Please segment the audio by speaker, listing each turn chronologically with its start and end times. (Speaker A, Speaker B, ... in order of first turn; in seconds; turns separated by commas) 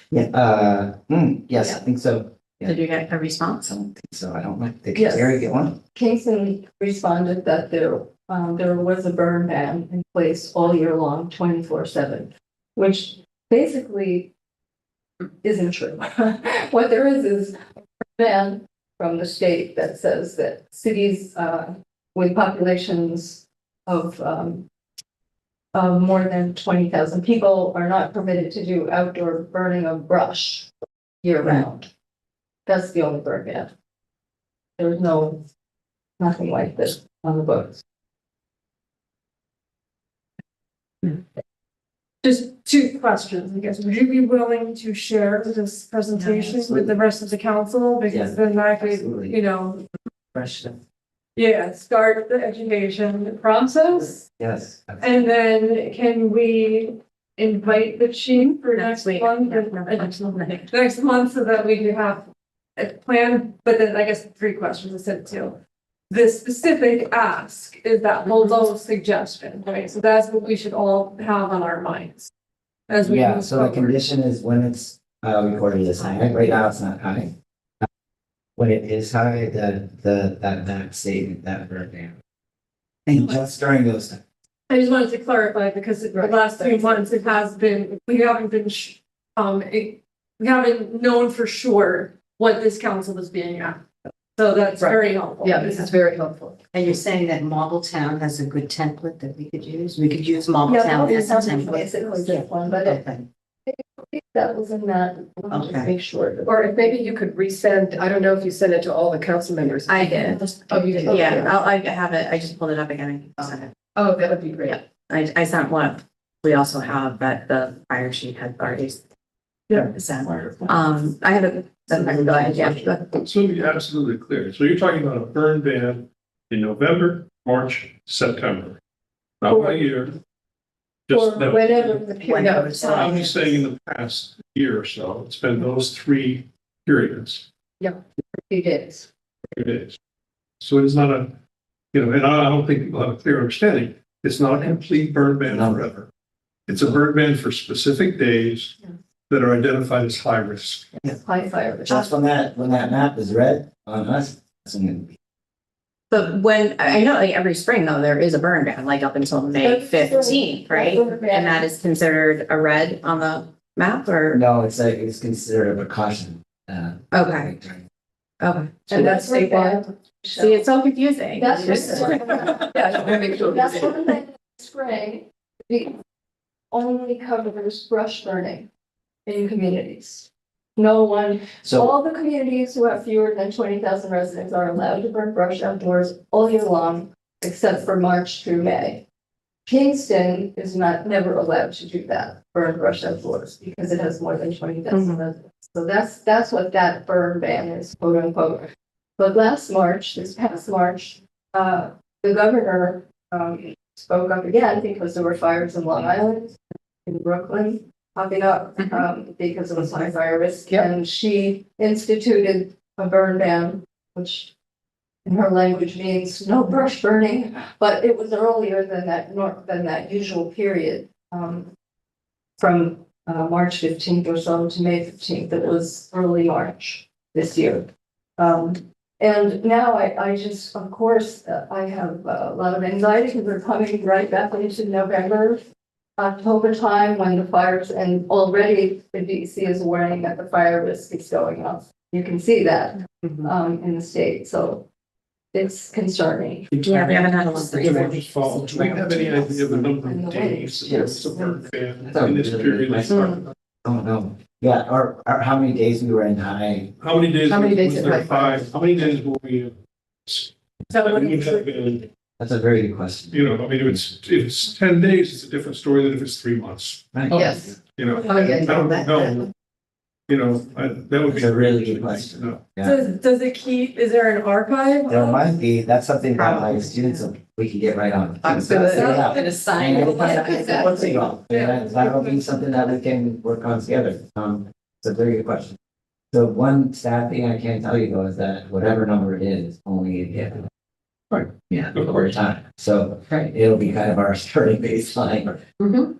Speaker A: 0.1-2.8, Speaker B: 2.6-3.7, Speaker A: 3.6-5.8, Speaker C: 5.0-14.3, Speaker C: 15.4-24.6, Speaker C: 25.7-30.7, Speaker C: 31.2-31.9, Speaker C: 32.6-33.7, Speaker C: 34.8-35.4, Speaker C: 36.2-37.8, Speaker D: 42.2-49.8, Speaker B: 46.1-46.5, Speaker A: 46.6-46.9, Speaker A: 48.1-49.4, Speaker A: 50.3-50.8, Speaker D: 51.4-54.2, Speaker A: 54.4-55.3, Speaker D: 55.0-62.2, Speaker B: 58.4-60.7, Speaker D: 62.8-65.6, Speaker D: 66.1-72.3, Speaker D: 72.9-74.0, Speaker A: 73.0-77.9, Speaker A: 78.6-82.1, Speaker A: 83.1-84.2, Speaker D: 84.7-93.8, Speaker E: 86.1-87.0, Speaker D: 94.3-95.9, Speaker E: 94.8-96.6, Speaker F: 96.7-103.2, Speaker C: 100.6-103.1, Speaker C: 103.7-106.6, Speaker F: 105.5-105.9, Speaker E: 106.4-111.6, Speaker B: 109.9-113.7, Speaker F: 110.0-110.5, Speaker E: 114.0-114.8, Speaker B: 114.7-119.0, Speaker B: 119.7-123.2, Speaker G: 123.2-128.8, Speaker G: 129.4-130.2, Speaker C: 129.5-129.8, Speaker G: 131.1-132.0, Speaker C: 131.1-133.6, Speaker F: 132.2-133.2, Speaker B: 132.3-133.2, Speaker E: 132.4-133.2, Speaker G: 132.9-137.4, Speaker C: 137.8-139.1, Speaker G: 139.5-139.9, Speaker G: 140.6-141.4, Speaker G: 141.9-146.1, Speaker A: 145.5-145.8, Speaker G: 146.7-148.8, Speaker G: 149.3-151.0, Speaker C: 151.0-152.1, Speaker A: 151.9-155.1, Speaker B: 156.1-164.4, Speaker C: 159.6-161.7, Speaker A: 164.3-167.8, Speaker B: 167.1-167.5, Speaker B: 168.4-173.8, Speaker C: 168.9-170.6, Speaker C: 171.3-175.9, Speaker E: 172.7-173.3, Speaker C: 176.7-178.7, Speaker C: 179.2-189.0, Speaker A: 181.6-181.9, Speaker C: 189.7-214.5, Speaker B: 194.9-195.2, Speaker C: 215.2-221.7, Speaker C: 222.6-235.6, Speaker C: 236.2-244.8, Speaker C: 245.5-246.7, Speaker B: 246.8-248.3, Speaker F: 246.8-249.0, Speaker G: 247.8-253.5, Speaker C: 248.9-251.6, Speaker A: 252.0-256.9, Speaker G: 257.0-259.7, Speaker E: 257.4-259.1, Speaker G: 260.3-262.1, Speaker A: 262.4-263.9, Speaker G: 263.3-269.5, Speaker A: 267.1-267.7, Speaker E: 268.3-269.4, Speaker G: 270.3-272.6, Speaker A: 271.2-273.0, Speaker D: 272.8-275.5, Speaker A: 275.1-285.8, Speaker B: 276.4-277.2, Speaker B: 278.5-281.2, Speaker D: 278.6-282.3, Speaker A: 286.3-290.6, Speaker G: 291.3-292.2, Speaker A: 291.7-295.6